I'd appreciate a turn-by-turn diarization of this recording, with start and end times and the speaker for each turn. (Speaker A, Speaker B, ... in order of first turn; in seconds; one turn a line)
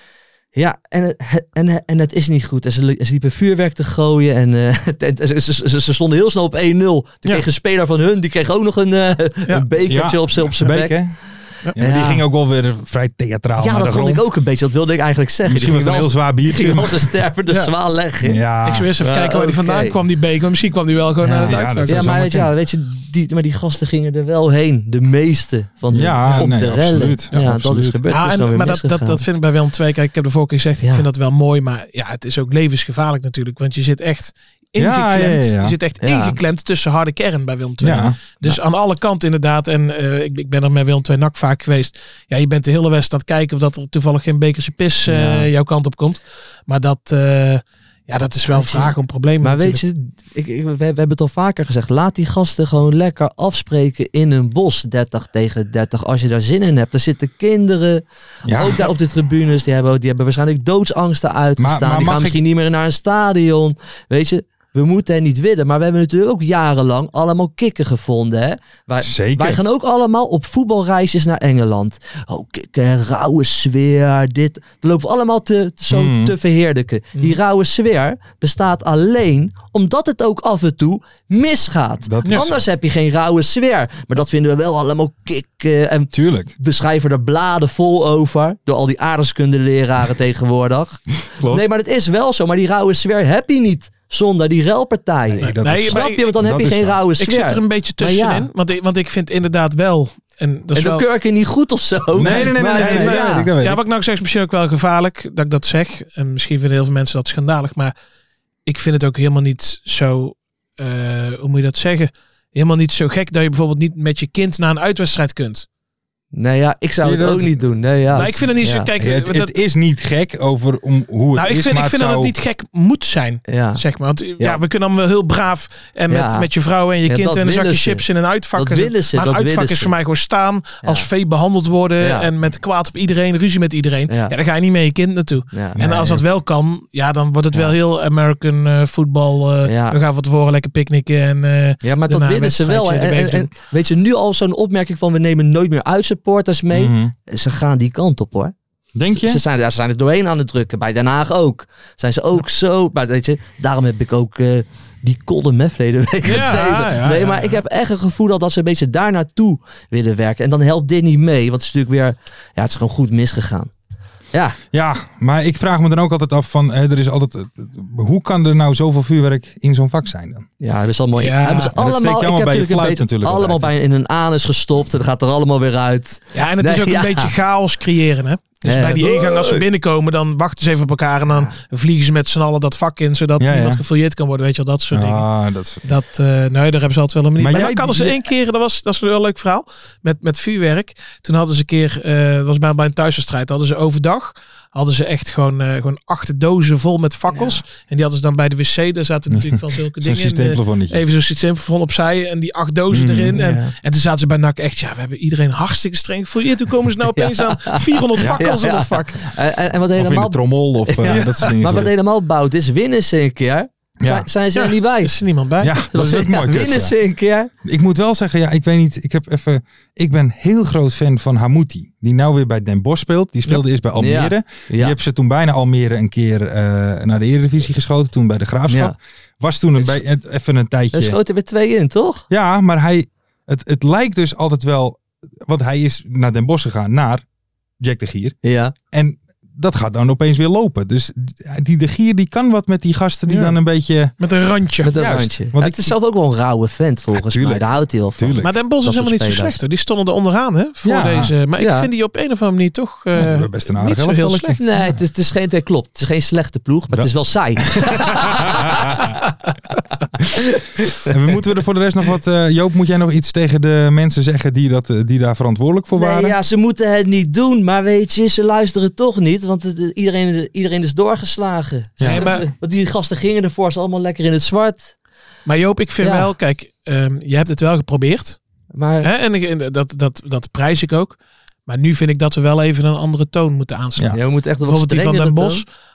Speaker A: 0.6-11.0
Speaker B: 9.8-14.2
Speaker A: 11.8-12.2
Speaker A: 13.6-18.5
Speaker B: 15.5-17.1
Speaker C: 17.5-17.7
Speaker B: 18.2-18.9
Speaker C: 18.6-22.2
Speaker A: 19.0-20.0
Speaker A: 21.2-29.2
Speaker B: 21.4-22.5
Speaker B: 25.9-28.0
Speaker C: 28.1-49.8
Speaker A: 30.8-31.1
Speaker B: 34.8-35.8
Speaker A: 36.0-36.4
Speaker B: 37.8-38.2
Speaker A: 45.1-45.5
Speaker A: 48.5-98.5
Speaker B: 58.5-58.9
Speaker B: 61.6-62.4
Speaker B: 69.0-69.6
Speaker B: 75.9-76.3
Speaker B: 82.0-82.6
Speaker B: 86.1-86.5
Speaker B: 91.3-91.6
Speaker B: 95.3-97.0
Speaker C: 95.4-96.3
Speaker C: 97.2-101.1
Speaker A: 100.7-103.5
Speaker B: 102.2-103.8
Speaker C: 102.2-107.9
Speaker C: 108.7-115.7
Speaker A: 116.3-118.9
Speaker B: 117.0-122.3
Speaker C: 118.1-119.5
Speaker C: 121.3-143.5
Speaker A: 123.5-123.8
Speaker A: 126.1-126.5
Speaker A: 127.0-129.9
Speaker A: 130.8-131.1
Speaker A: 132.0-132.3
Speaker A: 134.1-134.3
Speaker A: 135.5-135.9
Speaker B: 135.8-136.2
Speaker A: 139.6-140.0
Speaker A: 141.8-148.5
Speaker B: 146.7-147.1
Speaker B: 148.9-149.4
Speaker A: 149.1-163.7
Speaker C: 156.2-157.6
Speaker B: 164.7-170.5
Speaker A: 170.6-177.3
Speaker C: 171.2-171.7
Speaker B: 171.7-173.7
Speaker C: 176.3-185.3
Speaker A: 178.6-179.6
Speaker B: 183.4-183.8
Speaker B: 184.9-185.8
Speaker C: 185.8-209.2
Speaker B: 187.4-188.3
Speaker A: 197.3-197.6
Speaker B: 199.3-201.0
Speaker B: 202.9-203.4
Speaker A: 203.3-203.7
Speaker A: 207.1-215.1
Speaker B: 208.2-208.5
Speaker B: 209.9-211.9
Speaker C: 211.1-211.5
Speaker B: 214.0-214.3
Speaker C: 214.6-215.8
Speaker B: 215.6-217.0
Speaker A: 215.9-217.5
Speaker B: 217.6-231.2
Speaker A: 224.0-224.9
Speaker A: 228.7-228.9
Speaker A: 230.9-232.3
Speaker B: 232.3-237.2
Speaker B: 237.8-238.4
Speaker A: 238.4-238.8
Speaker B: 238.9-244.2
Speaker C: 243.3-243.6
Speaker C: 244.2-245.0
Speaker A: 244.8-249.6
Speaker B: 244.9-246.0
Speaker B: 247.1-248.6
Speaker C: 248.4-254.6
Speaker B: 250.8-251.3
Speaker A: 251.6-251.9
Speaker B: 253.1-254.9
Speaker A: 254.6-259.3
Speaker B: 257.6-259.1
Speaker A: 260.3-261.1
Speaker B: 261.0-266.4
Speaker A: 265.9-274.9
Speaker B: 272.0-272.4
Speaker C: 272.0-272.4
Speaker C: 275.4-278.4
Speaker A: 276.0-276.3
Speaker A: 278.7-279.1
Speaker C: 279.0-285.7
Speaker A: 284.1-285.6